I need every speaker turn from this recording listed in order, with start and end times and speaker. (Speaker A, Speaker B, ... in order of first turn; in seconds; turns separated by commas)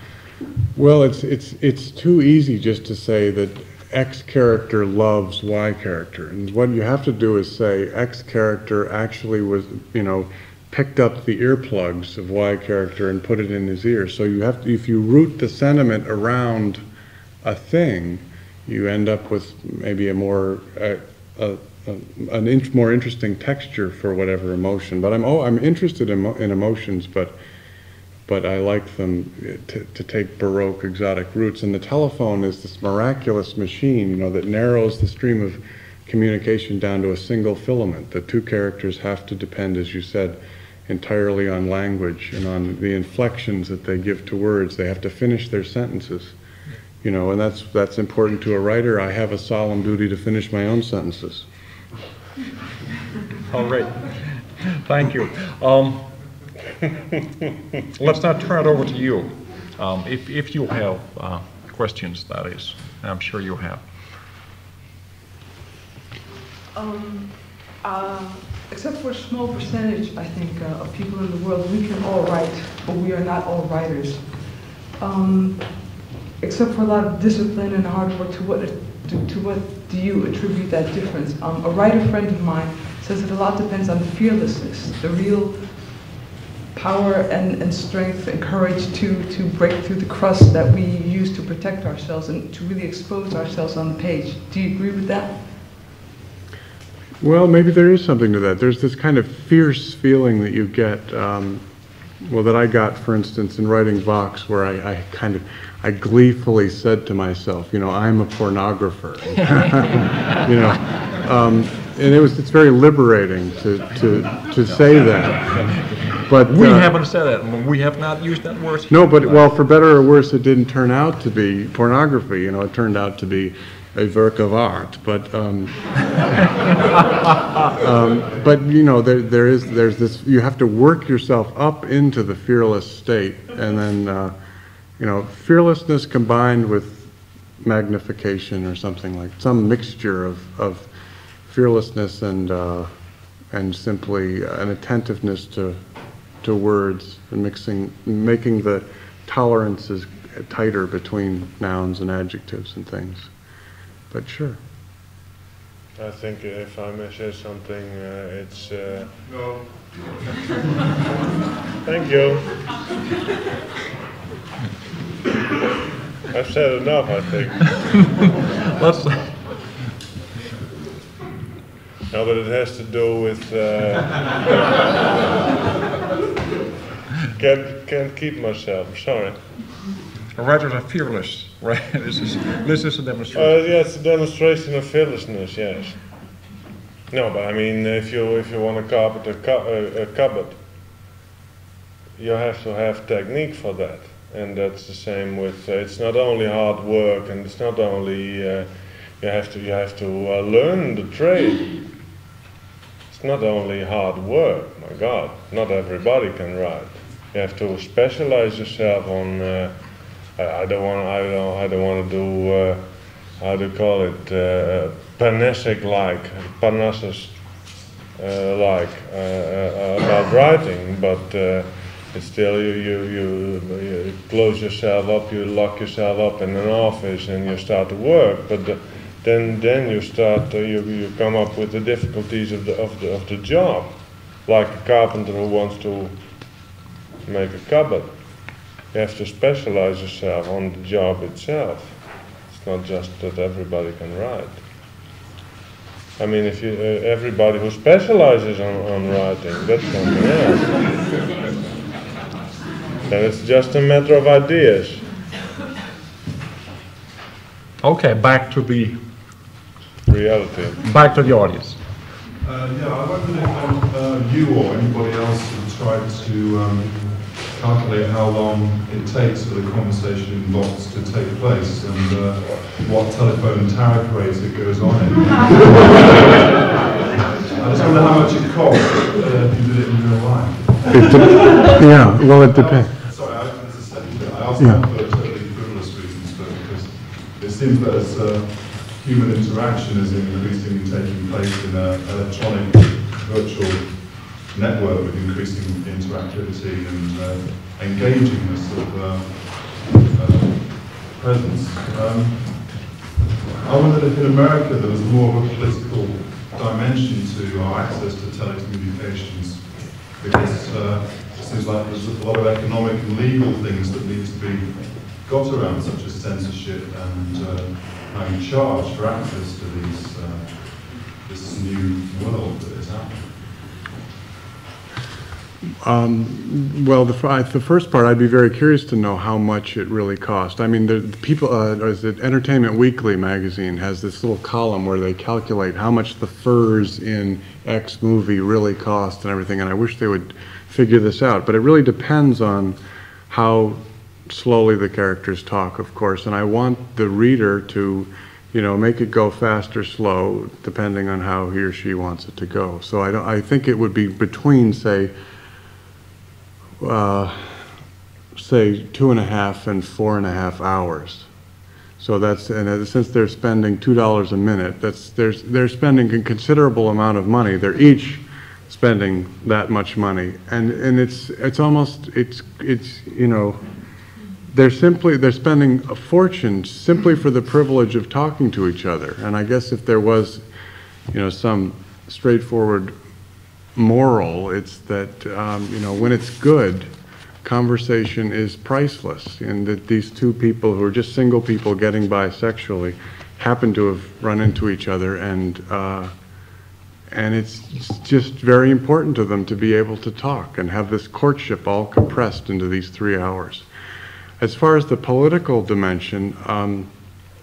Speaker A: 0.8-16.8, Speaker A: 17.4-27.4, Speaker A: 28.3-46.3, Speaker A: 47.0-51.5, Speaker B: 53.5-56.1, Speaker B: 57.9-63.8, Speaker C: 66.7-86.1, Speaker C: 86.7-95.5, Speaker A: 97.2-101.6, Speaker A: 102.2-116.9, Speaker B: 115.5-119.5, Speaker A: 118.9-126.7, Speaker A: 127.7-134.3, Speaker A: 135.0-140.9, Speaker A: 141.4-142.9, Speaker A: 143.5-145.8, Speaker A: 146.4-153.3, Speaker A: 154.1-154.6, Speaker D: 156.0-159.1, Speaker E: 159.2-159.9, Speaker D: 161.8-162.6, Speaker D: 166.3-168.0, Speaker B: 168.7-169.6, Speaker D: 172.1-174.9, Speaker D: 177.3-179.7, Speaker B: 180.3-183.7, Speaker D: 183.3-186.2, Speaker D: 187.1-190.6, Speaker D: 192.2-201.8, Speaker D: 203.1-236.2, Speaker D: 237.2-244.6, Speaker D: 246.2-250.9, Speaker D: 253.1-255.1, Speaker B: 257.8-259.0, Speaker D: 260.1-260.8, Speaker B: 260.8-261.9, Speaker E: 262.4-276.7, Speaker E: 277.5-303.0, Speaker A: 280.9-282.9, Speaker E: 303.6-323.4, Speaker A: 325.8-342.8, Speaker A: 343.3-355.1, Speaker A: 356.8-357.7, Speaker A: 358.3-361.3, Speaker A: 362.0-373.6, Speaker A: 374.5-380.4, Speaker A: 381.1-382.9, Speaker A: 383.7-386.9, Speaker A: 387.4-396.1, Speaker A: 397.1-403.7, Speaker A: 404.4-406.9